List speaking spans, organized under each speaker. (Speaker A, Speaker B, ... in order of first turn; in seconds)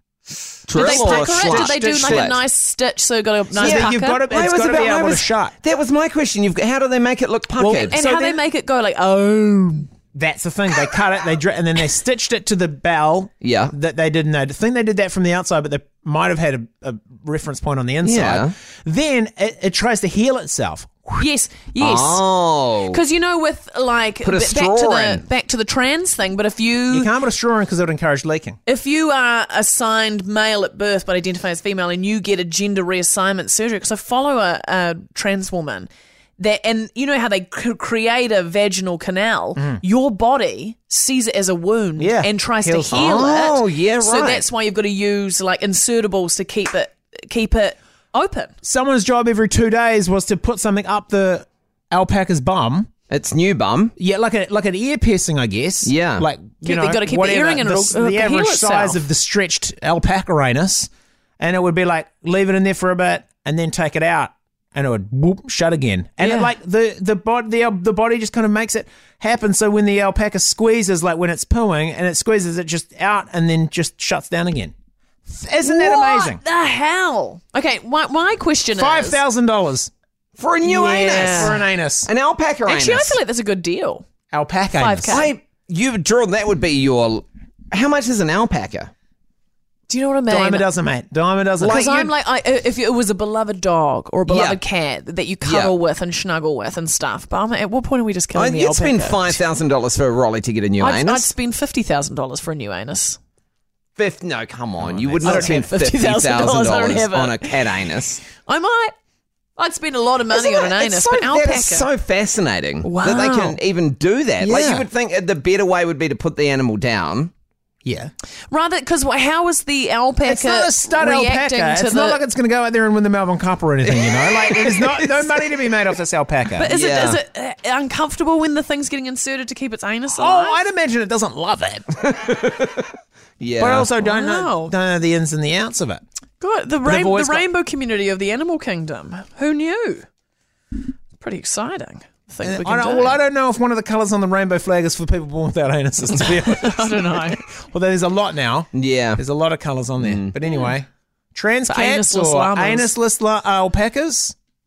Speaker A: 0.7-2.4, 3.6-8.0, 13.4-13.7, 18.0-18.5, 21.8-23.0, 24.2-25.2, 42.9-44.5, 53.1-53.9, 55.8-56.3, 80.4-83.2, 85.1-88.9, 91.6-91.9, 94.3-94.6, 95.4-95.7, 98.3-101.3, 104.0-108.2, 110.3-117.3, 123.8-125.5, 126.7-127.2, 132.1-133.9, 148.7-149.2, 150.0-150.3
Speaker B: 0.7-2.4, 3.5-5.5, 7.6-8.4, 10.1-21.3, 26.9-28.6, 39.6-39.8, 42.0-43.3, 48.6-52.9, 54.0-74.7, 75.3-76.4, 78.7-79.9, 80.7-82.1, 84.3-85.3, 90.3-92.1, 104.8-105.6, 114.4-114.9, 117.8-118.1, 120.2-126.7, 130.1-132.0, 133.6-136.0, 136.8-137.5, 142.4-154.3
Speaker C: 0.7-4.2, 7.6-9.9, 21.2-22.3, 22.8-27.1, 28.6-48.5, 56.6-59.0, 66.2-66.5, 75.6-79.2, 80.6-81.7, 82.6-84.0, 84.7-85.3, 89.9-90.7, 91.6-99.4, 100.8-103.2, 105.2-108.9, 109.6-111.9, 112.8-113.6, 118.5-122.2, 126.6-130.6, 133.9-134.7, 136.4-140.1, 141.2-143.2, 146.4-147.4, 151.7-152.9